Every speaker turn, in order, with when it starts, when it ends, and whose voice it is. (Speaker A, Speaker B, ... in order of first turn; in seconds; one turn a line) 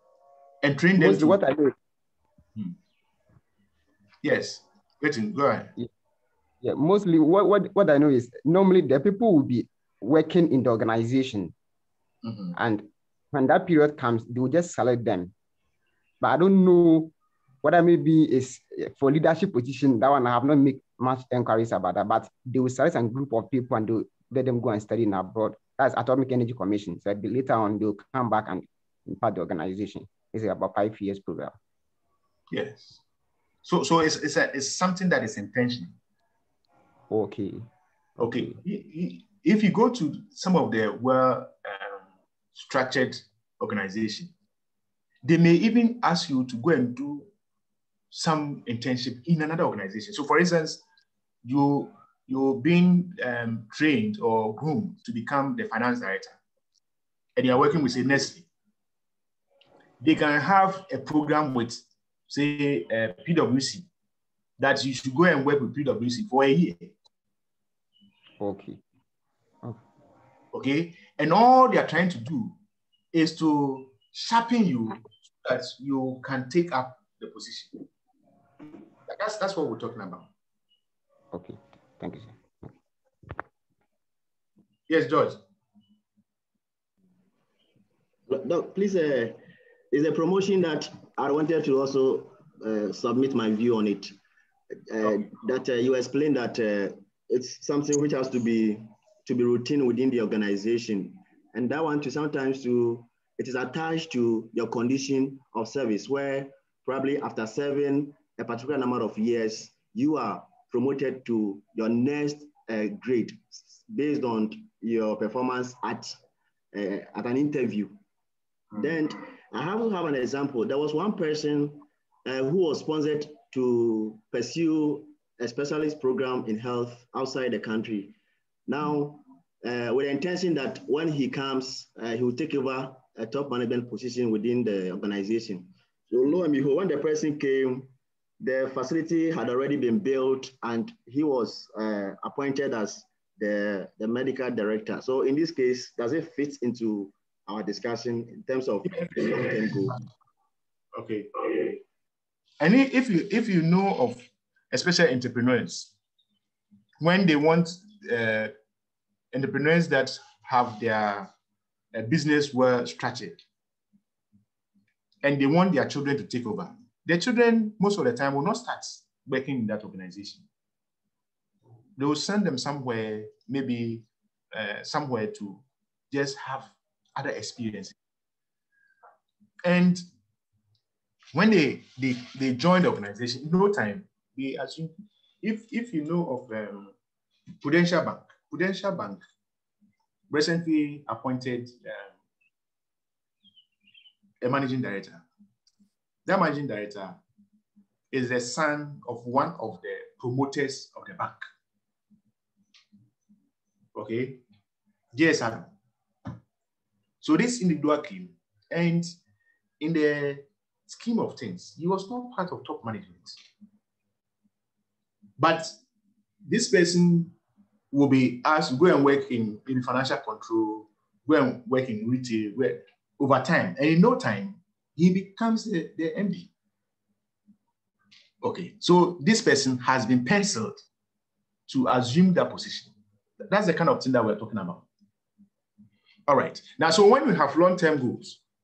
Speaker A: 0.6-1.4
Speaker B: 1.0-1.8
Speaker A: 4.2-5.7
Speaker B: 6.6-11.5
Speaker A: 12.2-12.6
Speaker B: 12.5-15.3
Speaker B: 16.2-31.6
Speaker A: 32.5-33.0
Speaker A: 33.6-36.0
Speaker B: 37.1-37.7
Speaker A: 38.2-44.3
Speaker B: 38.2-38.6
Speaker A: 45.2-47.3
Speaker A: 48.1-50.8
Speaker A: 51.4-56.4
Speaker A: 57.4-58.5
Speaker A: 60.0-63.9
Speaker A: 64.6-66.9
Speaker B: 68.4-68.8
Speaker A: 70.5-72.6
Speaker A: 73.1-77.7
Speaker A: 79.1-80.3
Speaker B: 81.3-82.4
Speaker A: 84.9-85.4
Speaker C: 88.3-89.4
Speaker C: 89.9-94.1
Speaker C: 94.9-116.2
Speaker C: 116.7-118.0
Speaker C: 118.8-128.2
Speaker C: 128.7-150.0
Speaker A: 149.1-149.7
Speaker A: 150.9-151.8
Speaker A: 152.6-155.9
Speaker A: 157.0-158.5
Speaker A: 159.3-161.3
Speaker A: 161.9-163.4
Speaker A: 165.2-170.5
Speaker A: 172.0-178.0
Speaker A: 179.7-180.0
Speaker A: 181.3-186.9
Speaker A: 187.6-189.2
Speaker A: 190.3-192.1
Speaker A: 194.4-195.2
Speaker A: 196.3-197.2
Speaker A: 198.1-201.4
Speaker A: 203.9-204.4
Speaker A: 205.1-205.7
Speaker A: 207.2-209.1
Speaker A: 209.8-213.4
Speaker A: 215.4-215.8
Speaker A: 216.5-217.3
Speaker A: 217.9-226.5
Speaker A: 228.4-230.8
Speaker A: 231.7-234.8
Speaker A: 236.3-238.4